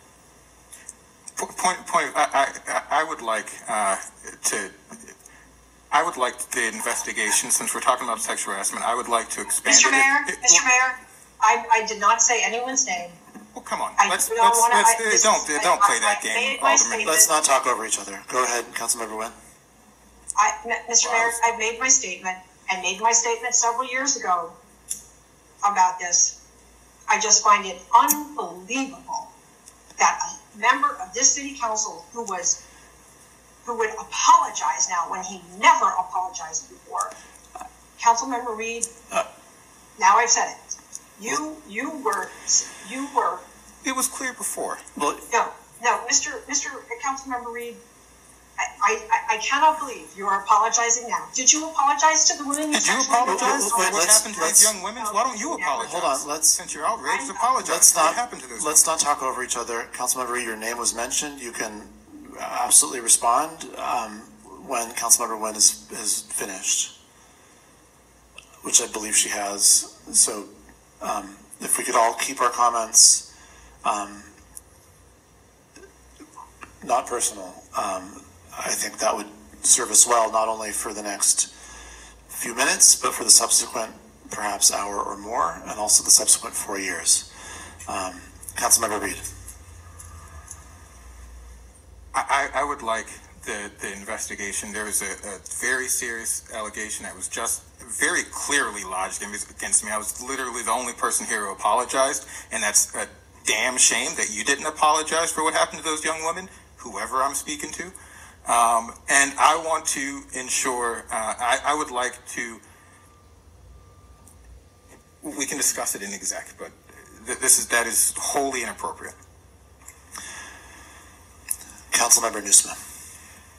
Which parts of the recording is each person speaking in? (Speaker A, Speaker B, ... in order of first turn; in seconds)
Speaker A: 1.4-5.1, 5.9-10.6, 13.5-17.1, 21.0-21.3, 43.8-44.8, 52.7-58.8, 92.1-107.9, 108.5-112.6, 115.2-119.1
Speaker B: 9.6-13.2, 14.0-17.3, 20.4-24.6, 25.6-26.4, 27.1-29.3, 30.0-32.6, 33.6-37.1, 38.0-38.9, 40.0-40.6, 41.2-43.4, 45.3-47.8, 48.6-55.9, 57.0-57.6
Speaker C: 17.0-19.4, 45.0-45.2, 53.2-54.7, 55.7-56.6, 57.6-66.9, 68.6-73.2, 73.8-74.3, 76.8-81.5, 82.3-87.3, 87.9-89.2, 121.9-122.8